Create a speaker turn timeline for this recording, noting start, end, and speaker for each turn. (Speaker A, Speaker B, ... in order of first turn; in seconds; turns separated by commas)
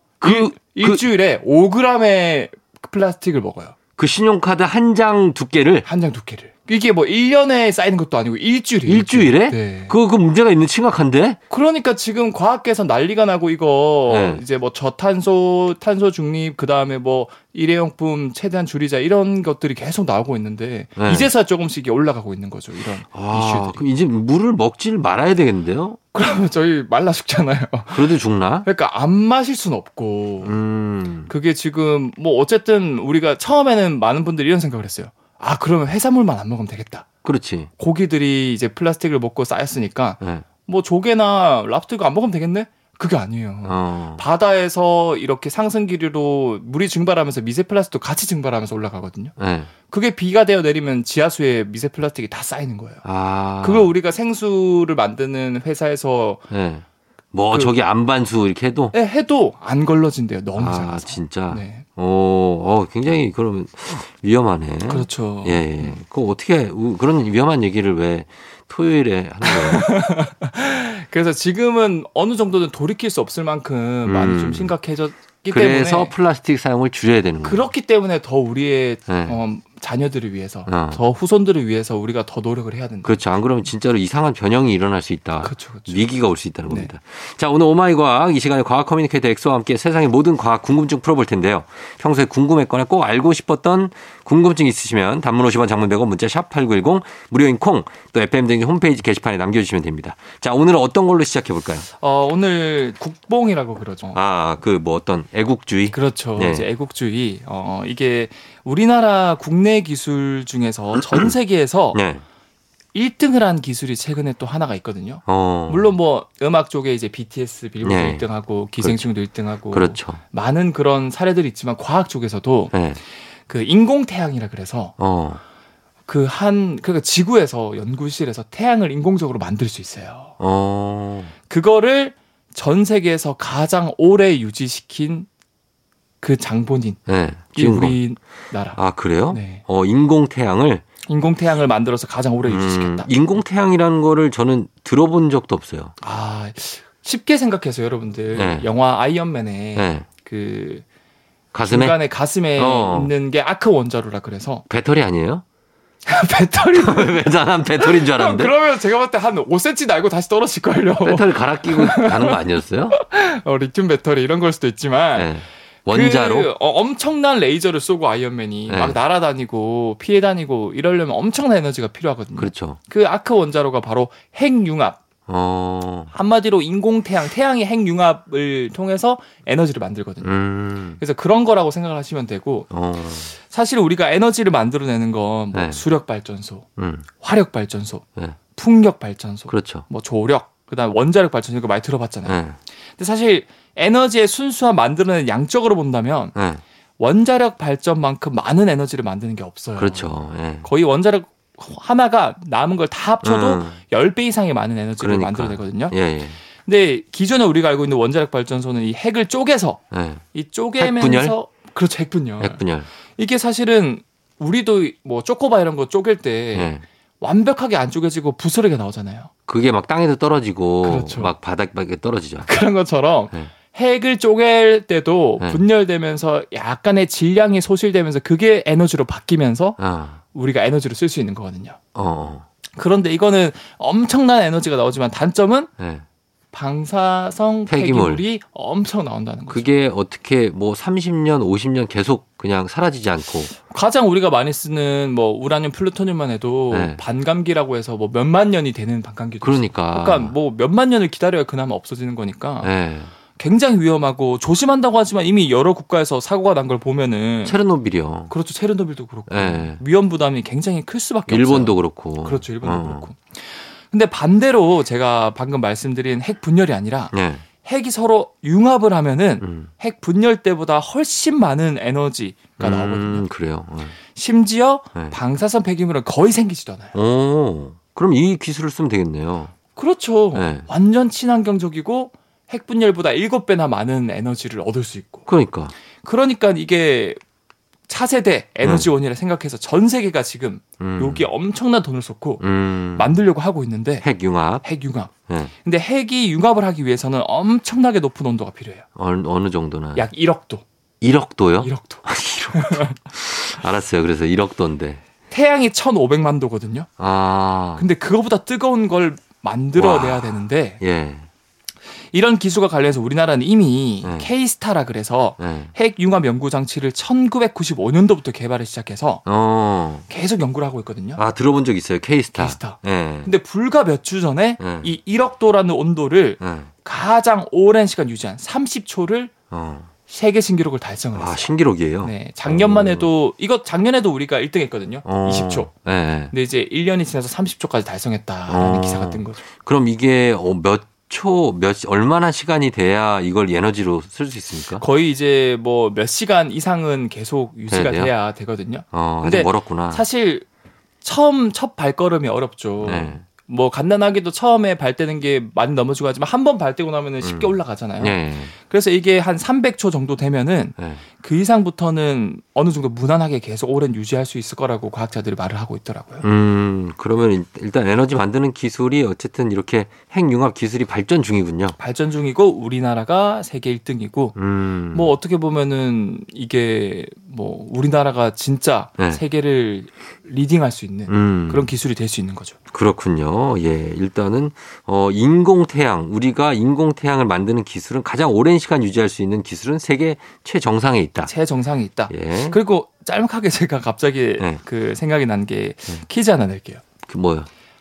Speaker A: 0.2-3.7, Speaker B: 0.2-1.0, Speaker B: 4.0-5.8, Speaker A: 5.8-9.9, Speaker B: 8.8-11.4, Speaker A: 11.5-23.8, Speaker B: 14.1-14.4, Speaker B: 20.9-21.3, Speaker B: 23.1-26.0, Speaker A: 26.1-30.6, Speaker B: 27.9-28.7, Speaker B: 30.4-31.3, Speaker A: 31.3-37.1, Speaker B: 37.2-37.7, Speaker A: 37.8-49.3, Speaker B: 43.6-44.2, Speaker B: 49.4-49.7, Speaker A: 49.9-53.0, Speaker B: 53.0-53.9, Speaker A: 53.6-56.4, Speaker B: 56.5-58.9, Speaker A: 57.5-57.8, Speaker A: 58.9-61.9, Speaker B: 60.6-69.9, Speaker A: 64.9-66.0, Speaker A: 69.4-76.1, Speaker B: 74.0-74.7, Speaker B: 75.5-77.7, Speaker A: 77.4-83.1, Speaker B: 79.1-79.4, Speaker B: 80.7-81.0, Speaker B: 83.0-101.9, Speaker A: 85.4-86.0, Speaker A: 102.0-104.2, Speaker B: 104.1-106.7, Speaker A: 105.9-112.0, Speaker B: 111.9-112.2, Speaker A: 112.9-122.7, Speaker B: 115.2-115.9, Speaker B: 117.8-118.2, Speaker B: 118.8-119.0, Speaker B: 119.7-120.2, Speaker B: 122.7-123.0, Speaker A: 123.5-124.9, Speaker B: 125.0-125.4, Speaker A: 126.1-130.3, Speaker B: 130.4-131.3, Speaker A: 131.5-135.3, Speaker A: 136.2-137.0, Speaker B: 137.1-138.0, Speaker A: 137.5-139.6, Speaker B: 138.8-140.8, Speaker A: 141.1-143.1, Speaker B: 142.4-145.9, Speaker A: 146.0-150.8, Speaker B: 148.3-148.7, Speaker B: 149.8-150.1, Speaker B: 151.5-152.0, Speaker A: 151.6-154.6, Speaker B: 152.6-153.1, Speaker B: 154.7-155.4, Speaker A: 156.1-165.3, Speaker B: 156.7-158.5, Speaker B: 161.0-163.0, Speaker B: 165.1-166.5, Speaker A: 165.9-175.0, Speaker B: 168.7-169.0, Speaker B: 172.4-172.8, Speaker B: 175.3-176.1, Speaker A: 176.1-180.3, Speaker B: 180.2-181.0, Speaker A: 181.0-182.7, Speaker B: 182.7-183.3, Speaker A: 183.3-186.7, Speaker B: 185.5-185.8, Speaker B: 186.8-187.1, Speaker A: 187.2-192.4, Speaker B: 189.5-189.8, Speaker B: 192.2-192.6, Speaker A: 193.0-196.3, Speaker B: 196.3-196.6, Speaker A: 197.0-205.9, Speaker B: 199.8-200.7, Speaker B: 203.2-203.8, Speaker B: 205.0-206.4, Speaker A: 206.6-209.8, Speaker B: 209.9-210.2, Speaker A: 210.3-212.6, Speaker B: 210.8-211.3, Speaker B: 212.4-212.9, Speaker A: 213.2-219.3, Speaker B: 216.5-216.8, Speaker B: 219.5-222.5, Speaker A: 220.8-221.3, Speaker A: 222.4-229.8, Speaker B: 229.8-230.2, Speaker A: 230.3-231.8, Speaker B: 231.9-232.4, Speaker A: 232.8-235.7, Speaker B: 235.8-236.0, Speaker A: 236.5-239.7, Speaker B: 237.7-238.2, Speaker B: 239.5-243.5, Speaker A: 243.7-252.7, Speaker B: 246.7-247.0, Speaker B: 249.4-250.3, Speaker B: 252.6-253.1, Speaker A: 253.3-257.6, Speaker B: 257.4-258.3, Speaker A: 258.3-267.1, Speaker B: 259.3-259.8, Speaker B: 261.3-263.1, Speaker B: 267.1-267.4, Speaker A: 267.6-273.2, Speaker B: 269.4-269.7, Speaker B: 272.6-273.9, Speaker A: 274.1-276.9, Speaker B: 276.9-279.5, Speaker A: 279.7-285.3, Speaker B: 280.3-280.6, Speaker B: 285.3-285.7, Speaker A: 286.0-287.2, Speaker A: 287.9-292.4, Speaker B: 288.6-288.9, Speaker B: 290.8-291.2, Speaker B: 292.4-293.1, Speaker A: 292.9-294.0, Speaker B: 294.0-294.6, Speaker A: 294.6-295.1, Speaker A: 295.6-298.9, Speaker B: 298.9-300.1, Speaker A: 299.9-300.6, Speaker B: 301.0-305.0, Speaker A: 301.6-302.9, Speaker A: 305.3-306.9, Speaker B: 307.0-307.9, Speaker A: 307.8-310.8, Speaker B: 309.7-311.3, Speaker A: 312.1-319.2, Speaker B: 314.0-314.3, Speaker B: 315.4-315.7, Speaker B: 319.2-320.0, Speaker A: 320.1-321.2, Speaker B: 321.1-323.3, Speaker A: 322.3-329.3, Speaker B: 324.6-324.9, Speaker B: 326.4-326.7, Speaker B: 329.5-329.9, Speaker A: 330.1-331.5, Speaker B: 331.1-333.1, Speaker A: 332.0-335.7, Speaker B: 335.0-336.3, Speaker A: 336.3-339.4, Speaker B: 338.5-344.8, Speaker A: 344.8-350.4, Speaker B: 347.7-348.1, Speaker B: 348.9-350.0, Speaker A: 351.0-366.2, Speaker B: 352.8-353.2, Speaker B: 357.2-358.5, Speaker B: 360.8-361.0, Speaker B: 366.2-371.8, Speaker A: 371.8-374.4, Speaker B: 374.4-375.1, Speaker A: 374.9-382.6, Speaker B: 381.1-381.7, Speaker B: 382.7-391.3, Speaker A: 391.2-396.8, Speaker B: 392.1-392.6, Speaker B: 397.1-397.5